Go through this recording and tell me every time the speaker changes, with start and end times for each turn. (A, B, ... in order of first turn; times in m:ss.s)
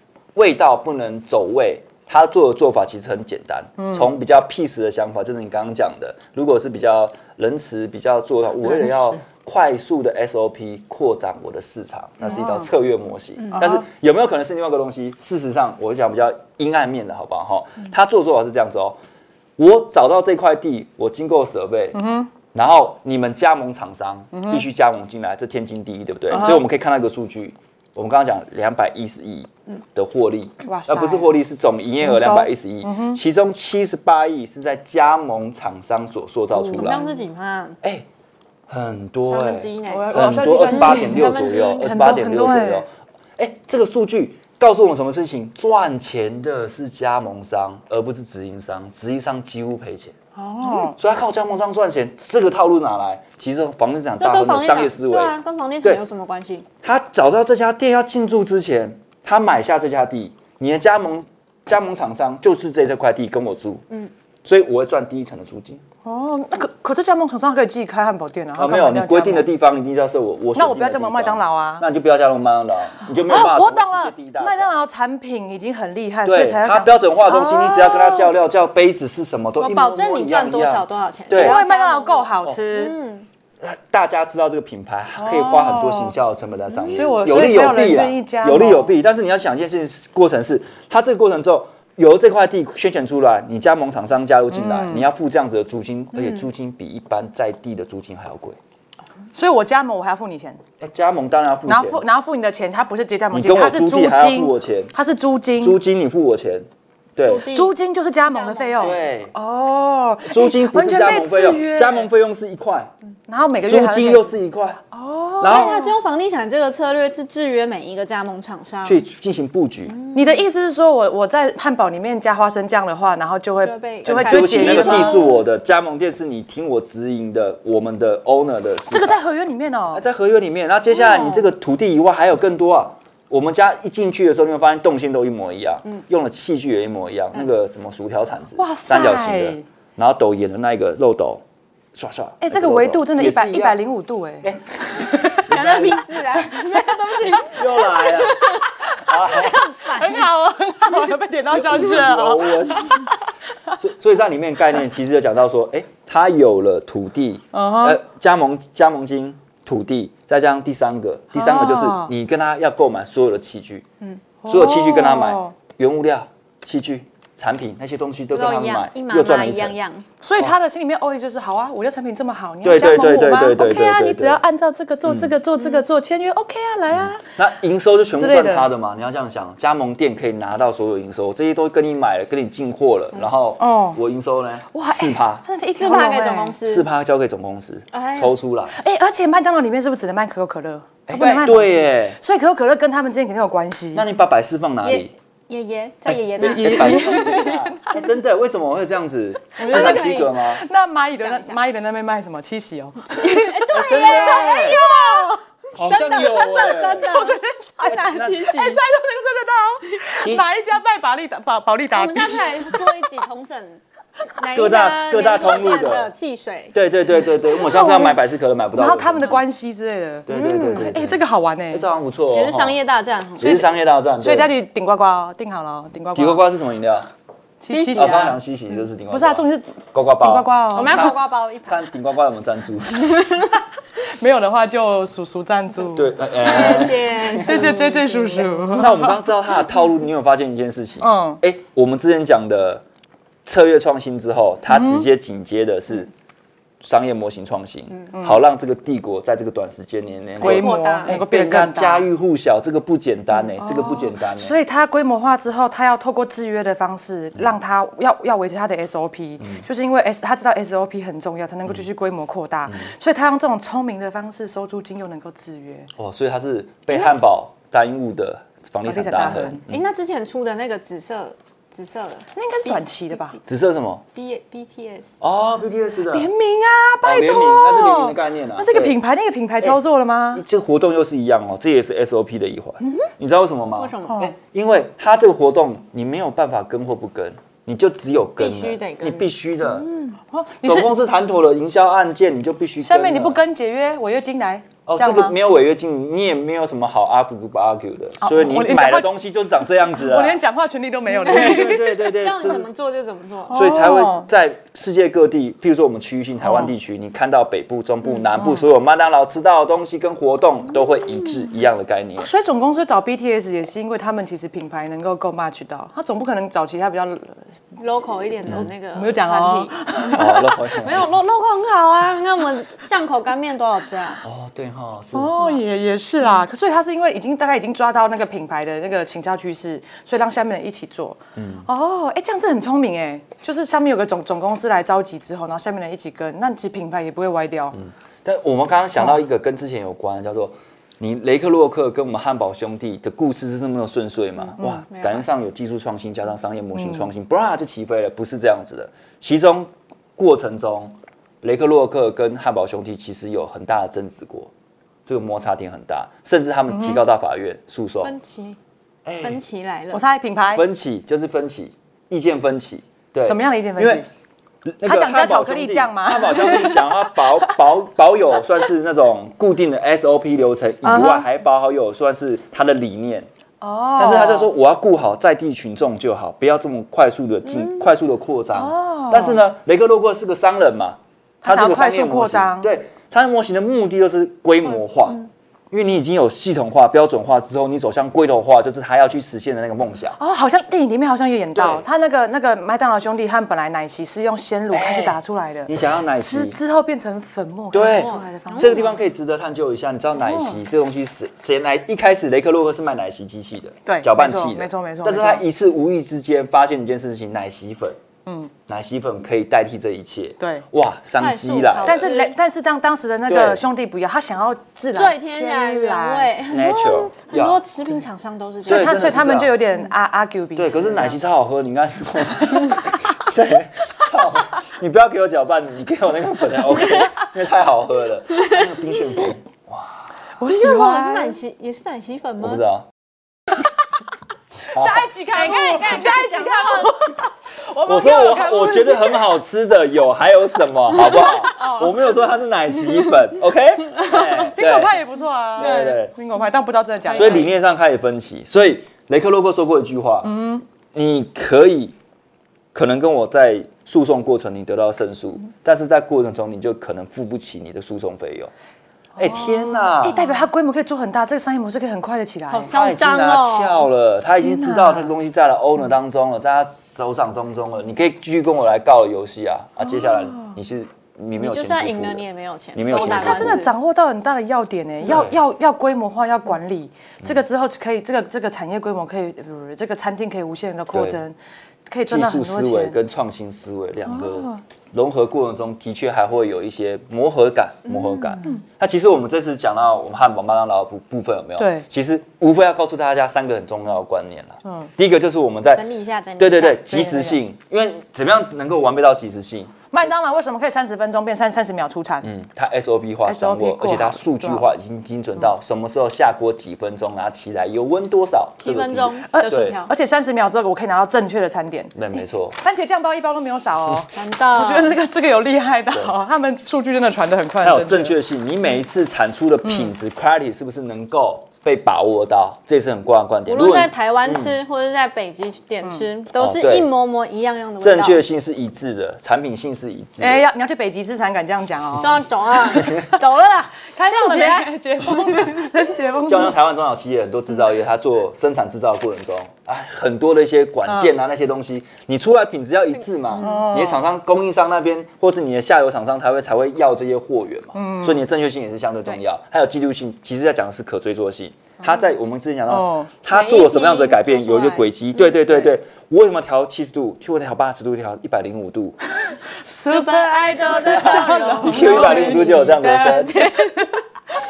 0:00.4-0:19.0 A
0:03.8-0:04.1 B
0:08.7-0:08.9 B
0:12.2-0:12.7 B
0:13.5-0:13.8 B
0:19.6-0:22.0 A
0:21.9-0:22.3 B
0:22.5-0:37.1 A
0:24.3-0:24.7 B
0:26.3-0:26.6 B
0:30.6-0:31.3 B
0:32.0-0:33.2 B
0:36.6-0:37.8 C
0:36.8-0:37.2 B
0:38.7-0:56.0 A
0:39.3-0:41.9 C
0:39.9-0:41.3 B
0:41.8-0:42.9 B
0:50.4-0:51.0 B
0:54.2-0:56.7 C
0:56.8-1:03.8 A
1:04.4-1:05.8 A
1:06.0-1:09.5 B
1:08.6-1:14.7 A
1:10.6-1:11.9 B
1:13.1-1:18.3 B
1:16.2-1:21.6 A
1:19.6-1:23.3 C
1:21.3-1:23.0 B
1:23.6-1:38.6 A
1:25.2-1:26.2 B
1:26.7-1:27.1 C
1:26.9-1:29.0 B
1:34.5-1:35.1 B
1:36.2-1:36.5 C
1:39.3-1:40.6 B
1:40.8-1:42.0 A
1:41.6-1:45.8 B
1:43.3-1:44.9 A
1:45.6-1:47.5 A
1:47.2-1:47.7 C
1:47.4-1:52.1 B
1:48.3-1:49.0 C
1:48.8-1:49.3 A
1:50.3-1:52.9 A
1:53.3-1:54.4 B
1:53.7-1:54.8 A
1:54.9-1:55.9 B
1:55.4-1:59.0 C
1:55.4-1:55.8 A
1:58.8-2:00.0 A
1:59.9-2:00.4 C
2:00.1-2:05.3 B
2:03.6-2:05.4 C
2:04.0-2:09.2 A
2:08.9-2:10.0 B
2:09.9-2:21.4 A
2:10.9-2:11.5 B
2:18.6-2:19.6 B
2:21.9-2:23.8 A
2:22.4-2:25.5 B
2:24.4-2:26.1 A
2:25.5-2:28.7 C
2:27.3-2:29.9 A
2:27.9-2:28.3 B
2:28.8-2:33.1 B
2:31.5-2:33.1 A
2:33.7-2:43.8 A
2:37.5-2:38.0 B
2:41.3-2:42.1 B
2:44.4-2:45.6 B
2:44.5-2:49.8 A
2:48.3-2:50.1 C
2:50.2-2:57.2 B
2:52.6-2:54.4 A
2:55.0-2:55.4 A
2:56.9-3:05.4 A
2:58.1-2:58.7 B
3:03.6-3:04.0 B
3:04.7-3:06.6 B
3:05.8-3:06.9 C
3:06.6-3:08.8 A
3:07.9-3:08.4 C
3:08.8-3:14.1 B
3:11.1-3:12.2 A
3:13.9-3:15.1 A
3:14.8-3:17.6 C
3:16.1-3:20.6 A
3:16.4-3:18.1 B
3:19.6-3:25.4 B
3:19.6-3:20.3 C
3:21.2-3:21.6 C
3:23.2-3:25.4 C
3:23.7-3:24.8 A
3:25.7-3:27.2 A
3:25.9-3:28.7 C
3:26.3-3:33.1 B
3:27.9-3:28.7 A
3:30.1-3:30.4 A
3:31.9-3:33.8 C
3:34.4-3:36.8 C
3:34.5-3:36.1 A
3:36.7-3:39.4 A
3:37.4-3:38.2 B
3:38.7-3:41.9 B
3:40.3-3:42.8 A
3:40.3-3:40.9 C
3:42.3-3:43.6 C
3:43.4-3:44.5 A
3:44.2-3:46.5 B
3:46.2-3:47.1 A
3:47.6-3:48.4 B
3:47.7-3:48.4 C
3:47.9-3:53.2 A
3:49.1-3:51.1 B
3:50.7-3:51.8 C
3:54.0-3:59.3 B
3:55.9-3:57.8 A
3:56.4-3:58.5 C
3:58.7-4:02.8 A
4:01.0-4:01.4 B
4:03.5-4:06.1 A
4:04.7-4:05.1 B
4:06.8-4:14.6 A
4:08.1-4:08.4 B
4:10.4-4:11.1 C
4:10.4-4:12.1 B
4:13.4-4:25.9 B
4:26.0-4:29.8 A
4:26.9-4:27.3 B
4:28.8-4:29.6 B
4:29.7-4:32.8 C
4:32.4-4:33.4 B
4:33.5-4:34.0 A
4:34.2-4:35.2 C
4:35.2-4:36.3 A
4:36.1-4:40.4 B
4:37.0-4:39.0 A
4:40.3-4:49.9 A
4:43.8-4:44.2 C
4:44.1-4:44.4 B
4:48.4-4:49.3 C
4:49.8-4:50.9 B
4:50.6-4:53.4 A
4:52.8-4:55.4 B
4:54.9-5:00.4 A
4:58.2-4:59.1 B
4:59.9-5:02.2 B
5:01.2-5:02.7 A
5:01.3-5:03.6 C
5:03.5-5:04.3 B
5:03.5-5:12.3 A
5:06.4-5:06.7 B
5:08.2-5:08.6 B
5:12.2-5:17.4 B
5:17.8-5:19.7 C
5:18.9-5:20.7 B
5:20.1-5:21.2 A
5:20.8-5:24.2 C
5:24.2-5:25.6 A
5:25.1-5:37.8 B
5:31.4-5:31.7 A
5:37.7-5:54.5 A
5:44.6-5:44.8 B
5:44.9-5:45.2 C
5:46.8-5:47.1 B
5:55.1-5:58.1 A
5:56.7-5:57.0 B
5:58.0-5:58.6 C
5:59.0-5:59.4 A
5:59.2-6:00.0 C
5:59.9-6:00.7 B
6:00.5-6:04.0 A
6:03.2-6:04.1 B
6:04.6-6:13.3 A
6:04.8-6:07.6 B
6:10.8-6:11.3 B
6:13.6-6:14.5 B
6:14.0-6:30.2 A
6:17.6-6:17.9 C
6:18.5-6:19.4 B
6:21.4-6:22.7 B
6:30.2-6:39.0 B
6:31.6-6:31.8 A
6:34.7-6:36.6 A
6:37.7-6:48.0 A
6:37.9-6:38.8 C
6:40.2-6:40.6 B
6:43.9-6:45.4 B
6:48.3-6:48.5 B
6:48.7-6:52.1 A
6:50.4-6:50.6 B
6:51.2-6:52.3 C
6:51.8-6:56.3 B
6:53.3-6:53.6 A
6:55.0-6:59.1 C
6:56.5-6:57.6 A
6:58.6-6:59.6 A
6:58.6-7:01.2 B
7:00.6-7:10.1 A
7:10.4-7:11.4 B
7:10.5-7:12.6 C
7:12.4-7:12.9 A
7:14.7-7:15.1 A
7:14.7-7:19.4 B
7:15.3-7:17.0 C
7:17.8-7:26.1 A
7:21.0-7:21.9 B
7:24.0-7:27.5 B
7:25.6-7:26.0 C
7:27.1-7:30.4 A
7:30.2-7:30.6 B
7:30.9-7:32.0 A
7:32.7-7:38.5 A
7:39.2-7:40.2 A
7:39.2-7:42.7 B
7:42.5-7:43.9 C
7:42.7-7:53.6 A
7:44.4-7:45.2 B
7:49.9-7:50.5 B
7:51.4-7:53.7 C
7:52.9-8:01.4 B
7:55.0-7:55.4 A
8:00.9-8:01.2 A
8:01.9-8:03.0 B
8:02.1-8:15.8 A
8:04.1-8:04.6 B
8:07.9-8:08.4 C
8:11.6-8:11.9 B
8:15.8-8:16.9 C
8:16.4-8:19.8 A
8:16.8-8:17.4 B
8:19.9-8:22.3 B
8:22.2-8:29.8 A
8:23.2-8:24.7 B
8:28.6-8:29.9 C
8:29.3-8:38.2 B
8:32.0-8:32.6 A
8:34.1-8:35.0 C
8:37.6-8:44.6 A
8:39.6-8:39.9 B
8:43.5-8:48.2 C
8:45.8-8:46.1 B
8:46.4-8:46.9 A
8:47.8-8:50.4 A
8:50.2-8:52.3 B
8:52.0-8:55.6 C
8:53.9-8:56.6 B
8:56.3-9:19.0 A
9:00.9-9:01.1 B
9:03.4-9:04.1 B
9:07.7-9:08.2 B
9:12.7-9:13.1 B
9:13.3-9:14.9 C
9:19.5-9:22.8 B
9:19.9-9:24.0 C
9:20.9-9:23.5 A